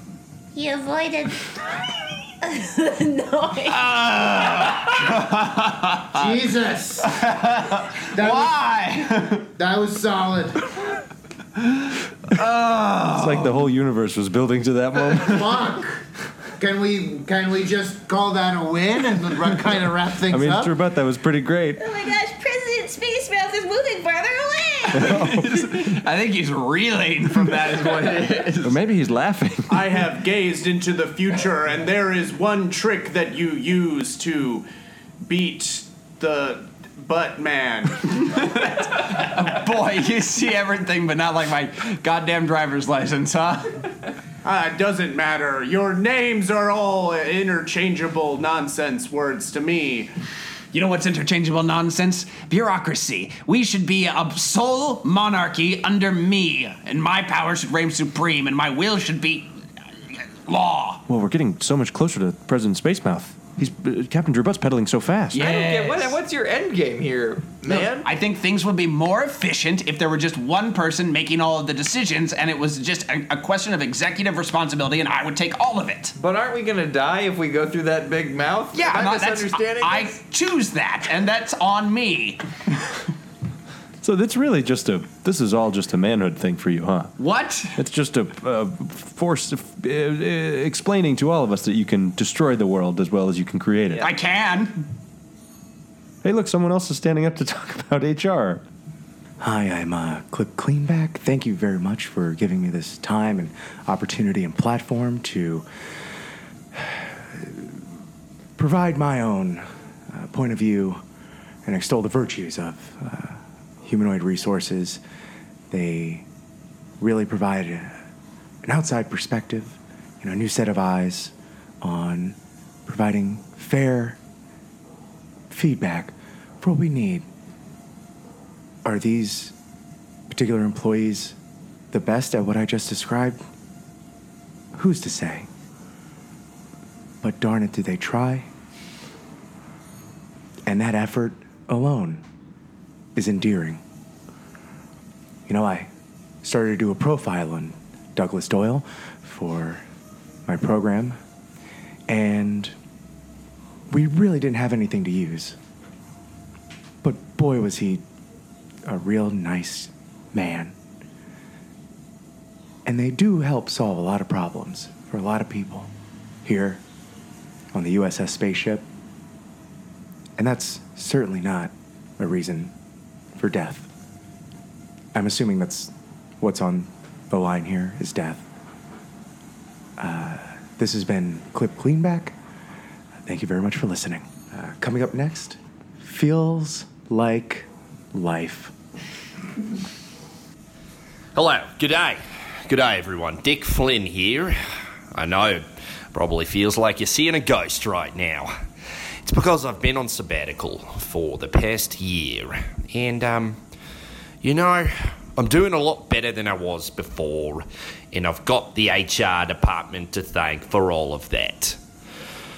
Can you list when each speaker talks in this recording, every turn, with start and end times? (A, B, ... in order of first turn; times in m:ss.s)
0:00.5-0:01.4 A
0:02.4-0:03.9 A
0:03.7-0:06.2 B
0:06.1-0:07.2 C
0:07.0-0:09.4 B
0:08.1-0:08.6 C
0:09.5-0:10.6 C
0:12.3-0:13.6 B
0:13.1-0:15.6 D
0:15.2-0:16.0 C
0:16.6-0:20.7 C
0:20.3-0:21.8 D
0:21.8-0:25.1 A
0:24.9-0:25.9 D
0:25.0-0:28.8 B
0:28.6-0:30.0 D
0:29.7-0:34.7 E
0:35.2-0:38.0 E
0:38.3-0:43.8 B
0:44.4-0:50.1 E
0:50.7-0:59.5 B
1:00.4-1:01.0 B
1:01.1-1:05.5 D
1:05.3-1:06.2 B
1:05.3-1:08.1 F
1:07.6-1:16.1 B
1:16.2-1:20.2 F
1:18.7-1:22.4 B
1:24.0-1:27.1 D
1:27.2-1:27.7 B
1:27.7-1:34.1 D
1:34.0-1:34.8 B
1:36.2-1:38.6 D
1:39.4-1:45.6 G
1:46.7-1:47.7 G
1:48.6-1:51.0 G
1:51.6-1:55.0 G
1:55.7-1:56.2 G
1:57.0-1:58.0 G
1:58.6-2:04.2 G
2:05.5-2:07.3 G
2:08.8-2:09.5 G
2:10.3-2:11.4 G
2:11.9-2:13.4 G
2:14.7-2:15.5 G
2:17.2-2:18.5 G
2:20.6-2:22.2 G
2:23.1-2:23.8 G
2:25.5-2:25.9 G
2:26.4-2:29.8 G
2:30.5-2:31.2 G
2:32.1-2:32.7 G
2:33.9-2:35.6 G
2:37.0-2:38.0 G
2:38.8-2:40.7 G
2:42.8-2:45.9 G
2:46.4-2:46.8 G
2:47.7-2:48.8 G
2:50.4-2:52.7 G
2:53.4-2:53.9 G
2:55.1-2:58.4 G
3:00.0-3:02.3 G
3:03.2-3:08.7 G
3:11.3-3:14.6 H
3:15.1-3:18.5 H
3:19.2-3:23.6 H
3:24.4-3:31.8 H